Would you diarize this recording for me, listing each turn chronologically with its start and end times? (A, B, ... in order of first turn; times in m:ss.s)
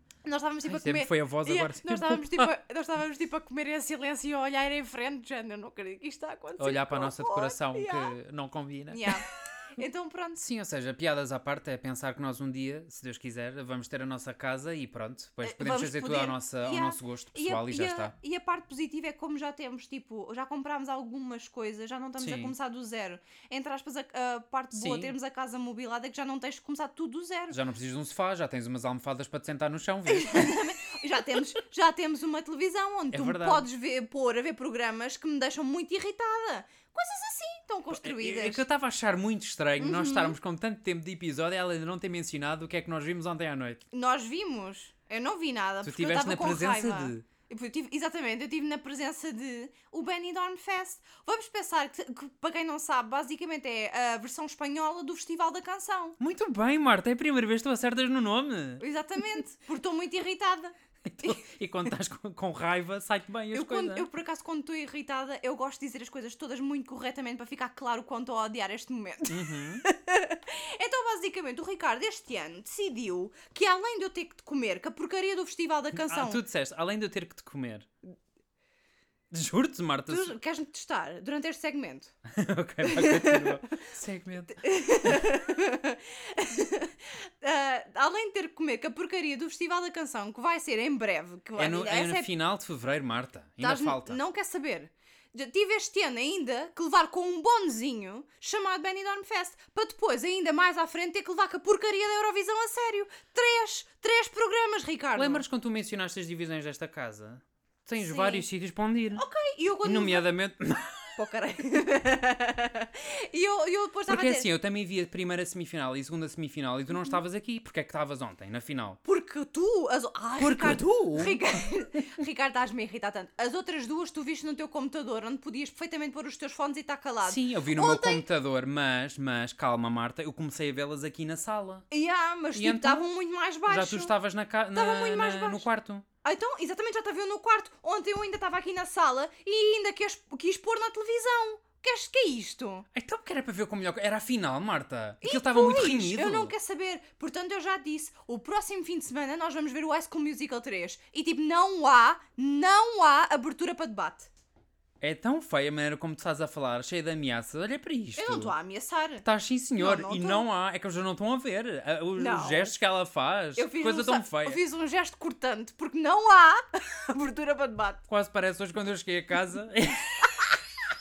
0:00.2-0:08.2 A
0:00.6-0:02.5 B
0:06.6-0:09.2 B
0:08.9-0:10.4 A
0:10.4-0:18.1 B
0:15.4-0:27.6 A
0:22.2-0:22.5 B
0:24.7-0:25.1 B
0:27.5-0:30.7 B
0:30.1-0:38.6 A
0:33.1-0:33.6 B
0:37.9-0:43.8 B
0:39.8-0:40.4 A
0:43.9-0:56.2 A
0:45.8-0:47.2 B
0:56.2-0:58.8 B
0:58.8-1:01.4 A
1:01.0-1:04.1 B
1:03.5-1:16.4 A
1:09.3-1:09.8 B
1:15.9-1:17.9 B
1:19.3-1:20.3 B
1:20.1-1:22.1 A
1:22.2-1:25.2 B
1:22.8-1:23.7 A
1:24.6-1:32.3 A
1:31.6-1:34.2 B
1:33.6-1:45.4 A
1:45.2-1:49.2 B
1:48.0-1:48.5 A
1:49.1-1:50.3 A
1:49.8-1:50.9 B
1:51.2-1:54.5 A
1:54.1-1:59.0 B
1:59.0-2:08.3 A
2:00.4-2:01.4 B
2:07.2-2:11.8 B
2:11.9-2:14.1 A
2:12.5-2:13.1 B
2:13.7-2:16.0 B
2:14.7-2:15.7 A
2:16.2-2:22.8 A
2:22.9-2:26.5 B
2:25.2-2:34.3 A
2:35.0-2:38.5 B
2:38.2-2:39.2 A
2:39.2-2:44.6 B
2:39.8-2:40.5 A
2:42.2-2:42.7 A
2:43.6-2:48.0 A
2:48.1-2:50.5 B